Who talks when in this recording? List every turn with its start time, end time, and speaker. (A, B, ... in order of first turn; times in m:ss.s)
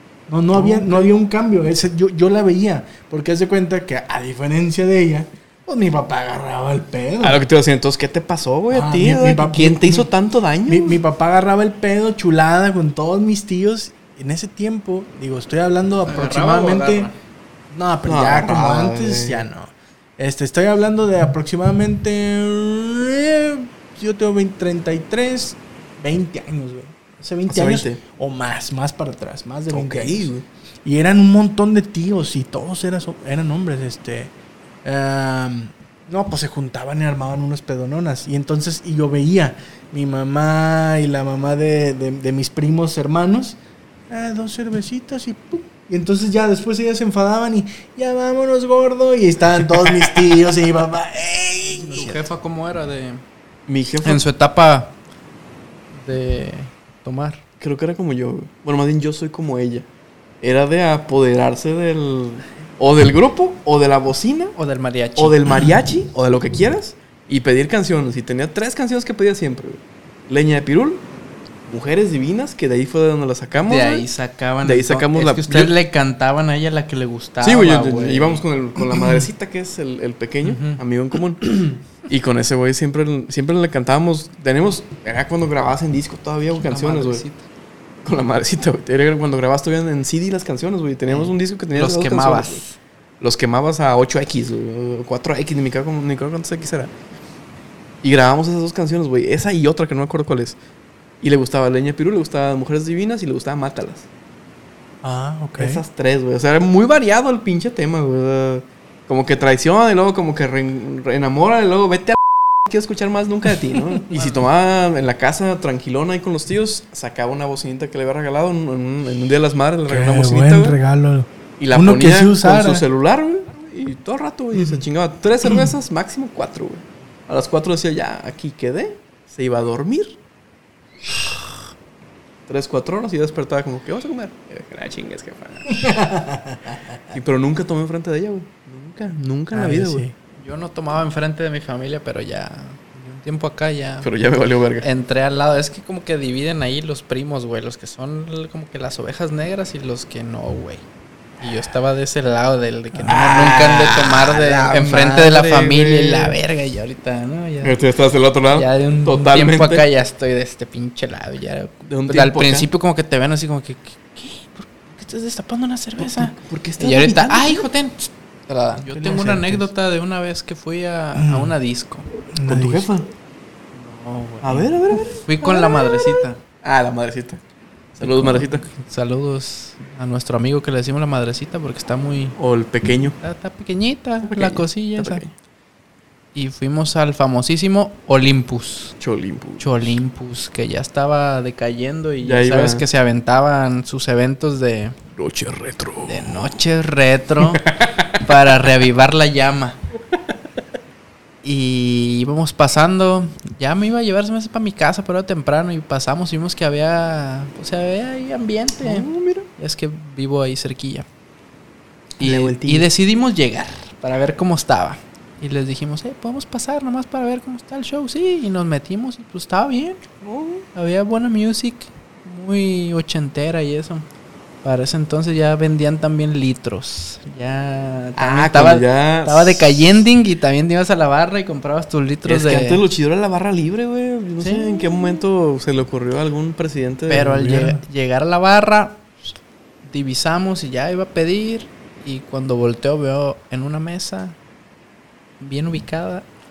0:00.3-0:07.4 A
0:00.5-0:01.1 B
0:07.2-0:11.0 B
0:08.7-0:10.1 A
0:10.6-0:17.1 A
0:16.0-0:17.1 C
0:17.7-0:30.3 A
0:18.0-0:19.4 B
0:27.5-0:28.0 B
0:29.7-0:30.4 B
0:30.8-0:34.3 A
0:34.8-0:43.6 A
0:44.1-0:52.3 A
0:51.9-0:53.2 C
0:53.7-0:54.2 B
0:54.0-0:54.9 C
0:55.9-0:57.4 C
0:57.6-0:59.9 B
1:00.4-1:04.6 B
1:04.6-1:05.4 C
1:05.2-1:11.0 B
1:11.7-1:14.1 B
1:13.6-1:18.4 C
1:14.6-1:15.7 B
1:17.4-1:27.2 B
1:20.4-1:20.8 C
1:26.6-1:27.4 C
1:28.0-1:32.6 B
1:31.1-1:32.8 C
1:33.2-1:36.9 B
1:38.0-1:40.6 B
1:41.2-1:44.1 B
1:45.0-1:45.8 A
1:45.6-2:00.8 B
1:59.9-2:02.8 A
2:01.6-2:10.2 B
2:04.5-2:04.8 A
2:12.5-2:15.9 B
2:15.8-2:16.8 A
2:17.1-2:20.0 B
2:19.5-2:20.1 A
2:20.4-2:24.1 C
2:24.0-2:24.9 B
2:24.8-2:30.8 C
2:31.4-2:37.8 C
2:32.9-2:33.2 A
2:33.1-2:36.4 B
2:37.6-2:39.8 B
2:38.5-2:52.1 C
2:41.8-2:42.7 B
2:46.0-2:47.6 B
2:48.8-2:49.7 A
2:51.1-2:51.6 A
2:52.3-2:52.9 A
2:52.4-2:53.1 B
2:53.7-2:56.4 C
2:54.4-2:57.4 B
2:58.0-2:58.6 B
2:58.0-3:02.4 C
3:02.4-3:03.2 B
3:03.2-3:05.2 C
3:04.2-3:05.3 B
3:06.3-3:09.0 C
3:09.0-3:10.0 B
3:09.6-3:15.0 C
3:12.2-3:12.8 B
3:15.2-3:16.6 B
3:16.0-3:17.6 C
3:17.4-3:18.2 B
3:18.2-3:19.8 C
3:21.4-3:31.0 C
3:28.8-3:29.5 B
3:32.2-3:40.0 C
3:32.2-3:32.9 B
3:40.2-3:40.6 B
3:40.7-3:44.0 C
3:44.6-3:52.8 C
3:48.2-3:50.0 B
3:52.2-3:57.3 B
3:54.4-3:55.2 C
3:57.1-3:59.0 C
3:57.1-3:57.8 A
3:59.8-4:04.4 C
4:05.4-4:06.2 C